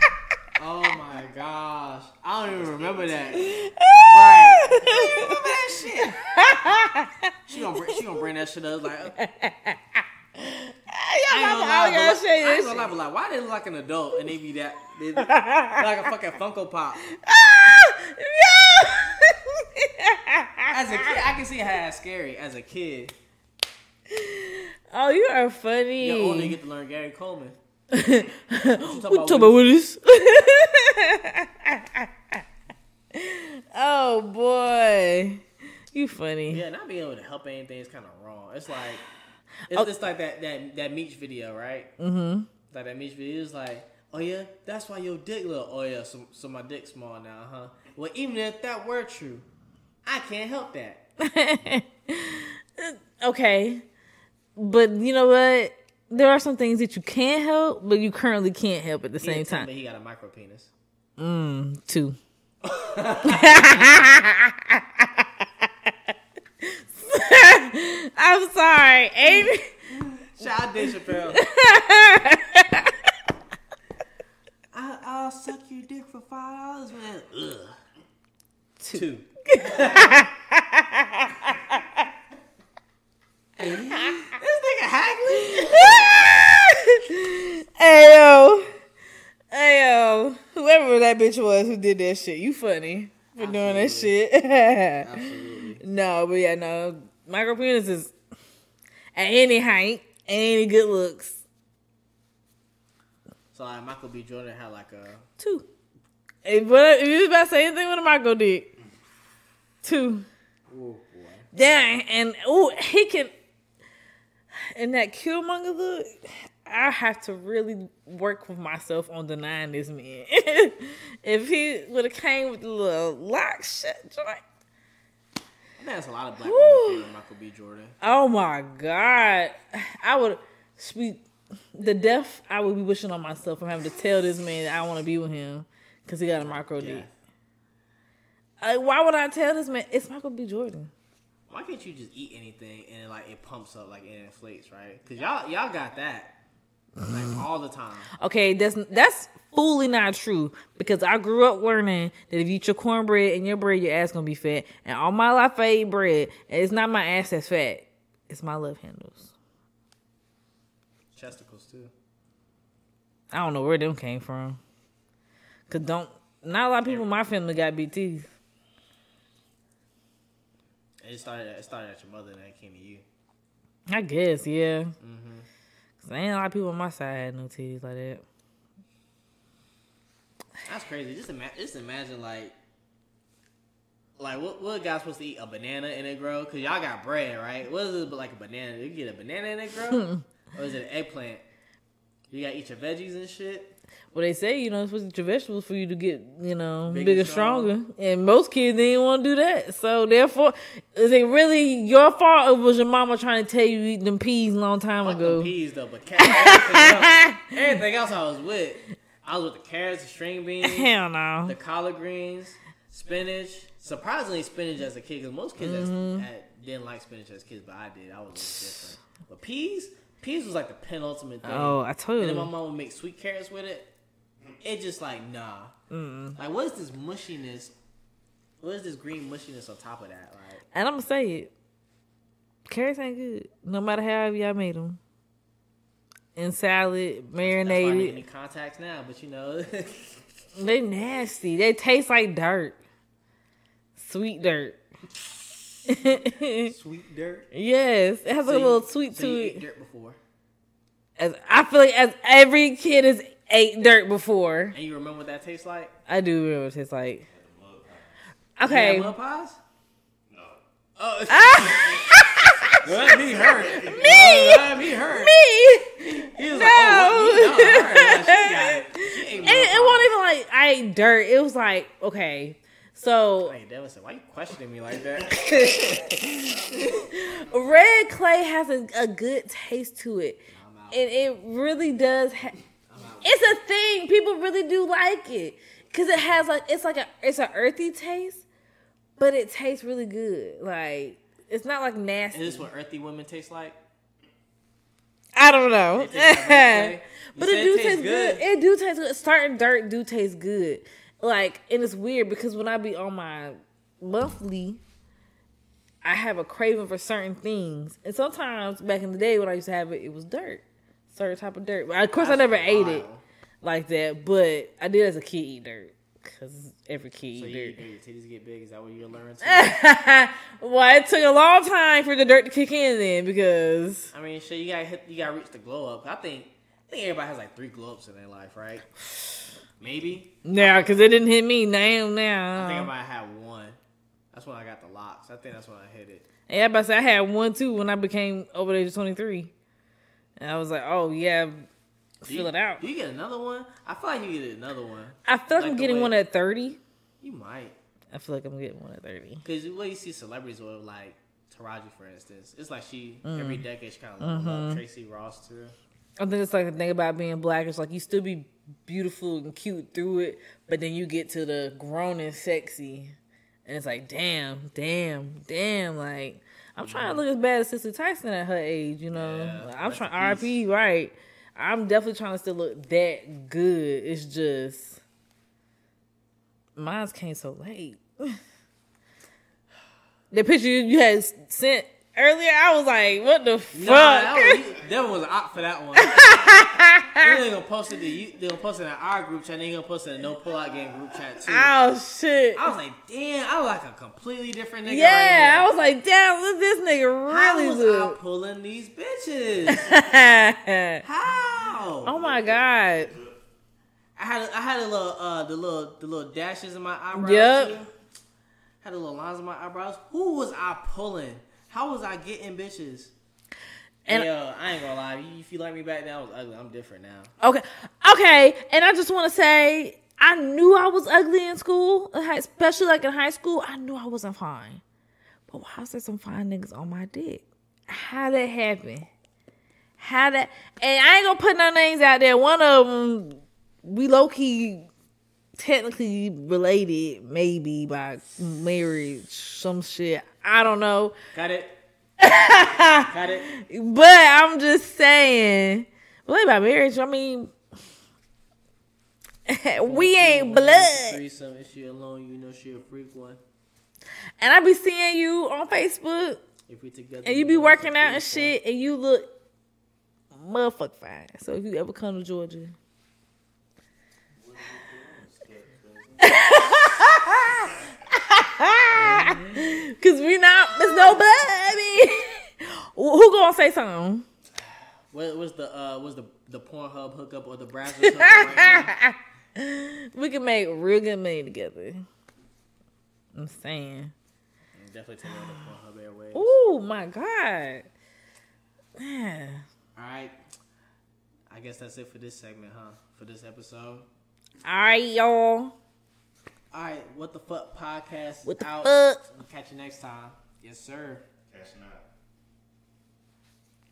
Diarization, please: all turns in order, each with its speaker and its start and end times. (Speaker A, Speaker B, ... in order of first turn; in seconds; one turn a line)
Speaker A: 0.6-3.5
Speaker B: 2.6-3.6
Speaker C: 3.4-8.2
Speaker A: 4.1-6.2
Speaker A: 7.5-9.1
Speaker C: 9.1-12.9
Speaker A: 11.3-17.1
Speaker C: 15.2-15.8
Speaker C: 17.1-21.0
Speaker A: 20.7-23.2
Speaker C: 24.1-26.6
Speaker A: 26.0-27.6
Speaker C: 27.9-32.4
Speaker A: 28.7-29.6
Speaker C: 33.1-36.6
Speaker A: 36.5-39.0
Speaker A: 39.7-41.9
Speaker C: 42.0-42.5
Speaker A: 42.7-49.5
Speaker A: 50.0-51.1
Speaker C: 51.2-53.9
Speaker C: 54.6-59.7
Speaker A: 59.2-60.7
Speaker C: 61.2-62.2
Speaker A: 62.6-64.0
Speaker C: 63.2-65.9
Speaker C: 66.6-69.8
Speaker A: 69.2-71.4
Speaker C: 70.4-73.0
Speaker A: 74.7-77.8
Speaker C: 78.8-82.1
Speaker A: 78.9-80.3
Speaker A: 83.6-86.5
Speaker C: 84.0-84.3
Speaker C: 85.3-88.7
Speaker C: 89.5-95.3
Speaker A: 93.4-94.2
Speaker A: 95.0-95.8
Speaker C: 95.8-98.2
Speaker C: 99.2-101.4
Speaker A: 103.5-105.3
Speaker C: 105.4-105.7
Speaker C: 106.5-108.7
Speaker C: 109.8-110.3
Speaker A: 110.7-111.5
Speaker C: 111.5-113.3
Speaker C: 114.5-124.4
Speaker A: 125.8-128.0
Speaker C: 126.4-127.0
Speaker C: 128.0-137.1
Speaker A: 136.4-137.1
Speaker C: 138.6-140.9
Speaker A: 141.5-146.3
Speaker A: 147.0-148.1
Speaker C: 148.2-159.3
Speaker A: 161.1-161.9
Speaker C: 163.3-164.6
Speaker C: 165.7-168.3
Speaker A: 171.0-173.1
Speaker C: 173.9-174.9
Speaker A: 175.0-175.5
Speaker C: 176.0-178.2
Speaker A: 180.7-182.6
Speaker A: 184.2-191.4
Speaker A: 192.3-193.8
Speaker C: 194.1-205.5
Speaker A: 196.9-197.7
Speaker A: 205.1-210.9
Speaker C: 206.2-207.5
Speaker C: 210.6-211.6
Speaker A: 211.5-223.9
Speaker C: 215.6-216.3
Speaker C: 221.4-222.5
Speaker A: 224.6-225.7
Speaker C: 225.9-226.4
Speaker A: 226.4-227.7
Speaker A: 228.6-230.6
Speaker C: 230.7-231.5
Speaker C: 232.7-235.0
Speaker C: 236.4-238.2
Speaker A: 237.4-240.2
Speaker C: 240.6-242.8
Speaker C: 244.0-244.8
Speaker C: 245.9-246.7
Speaker A: 246.5-247.5
Speaker C: 247.5-249.6
Speaker A: 248.5-250.2
Speaker C: 251.2-254.8
Speaker A: 254.7-256.0
Speaker C: 256.1-257.2
Speaker B: 257.3-258.2
Speaker C: 258.6-259.1
Speaker A: 258.7-259.6
Speaker B: 260.3-260.6
Speaker A: 261.0-262.2
Speaker C: 261.3-262.8
Speaker B: 261.6-262.0
Speaker B: 262.7-264.2
Speaker A: 262.7-265.4
Speaker C: 263.8-273.6
Speaker A: 266.0-270.1
Speaker A: 273.4-277.0
Speaker C: 275.5-282.6
Speaker A: 280.5-281.1
Speaker A: 282.9-283.6
Speaker C: 283.2-288.4
Speaker C: 289.2-292.7
Speaker A: 292.3-293.8
Speaker C: 295.4-304.8
Speaker A: 295.9-298.5
Speaker C: 306.0-313.1
Speaker A: 312.2-313.2
Speaker C: 313.6-317.8
Speaker A: 317.3-319.8
Speaker C: 319.4-324.1
Speaker A: 324.1-328.9
Speaker A: 329.8-331.2
Speaker C: 330.4-332.9
Speaker A: 332.6-333.8
Speaker A: 334.3-336.3
Speaker C: 336.5-339.5
Speaker C: 340.4-341.7
Speaker C: 342.2-342.8
Speaker A: 342.3-346.2
Speaker C: 345.2-346.8
Speaker A: 347.2-347.8
Speaker C: 348.1-349.4
Speaker A: 349.4-355.8
Speaker C: 353.2-353.6
Speaker C: 354.2-354.8
Speaker C: 356.2-363.1
Speaker C: 363.7-375.0
Speaker A: 366.8-367.2
Speaker A: 369.1-370.6
Speaker C: 376.8-378.4
Speaker C: 380.3-384.6
Speaker A: 383.7-386.4
Speaker C: 386.0-387.3
Speaker A: 387.2-391.8
Speaker C: 391.5-392.7
Speaker A: 392.6-395.8
Speaker C: 394.9-398.2
Speaker A: 397.3-400.0
Speaker C: 399.7-401.0
Speaker A: 401.0-402.2
Speaker B: 402.0-403.4
Speaker C: 402.0-403.2
Speaker A: 404.2-407.9
Speaker C: 407.1-407.8
Speaker A: 408.8-413.1
Speaker A: 414.1-417.3
Speaker C: 417.4-424.8
Speaker C: 425.5-429.1
Speaker C: 430.0-434.9
Speaker C: 435.6-441.2
Speaker A: 441.3-441.8
Speaker C: 442.2-447.5
Speaker A: 442.8-443.5
Speaker C: 449.5-451.2
Speaker A: 449.8-453.4
Speaker C: 454.4-456.4
Speaker A: 456.7-458.6
Speaker C: 457.2-459.3
Speaker C: 460.3-462.8
Speaker B: 464.4-466.9
Speaker C: 466.2-467.7
Speaker B: 467.5-468.0
Speaker C: 468.3-474.3
Speaker A: 468.9-469.6
Speaker A: 475.1-478.9
Speaker C: 478.0-482.1
Speaker C: 483.4-484.1
Speaker A: 484.7-486.6
Speaker C: 486.3-487.9
Speaker C: 489.0-489.6
Speaker A: 490.0-490.4
Speaker A: 491.5-494.1
Speaker C: 494.6-495.8
Speaker A: 496.7-501.3
Speaker C: 498.4-499.2
Speaker B: 501.5-502.1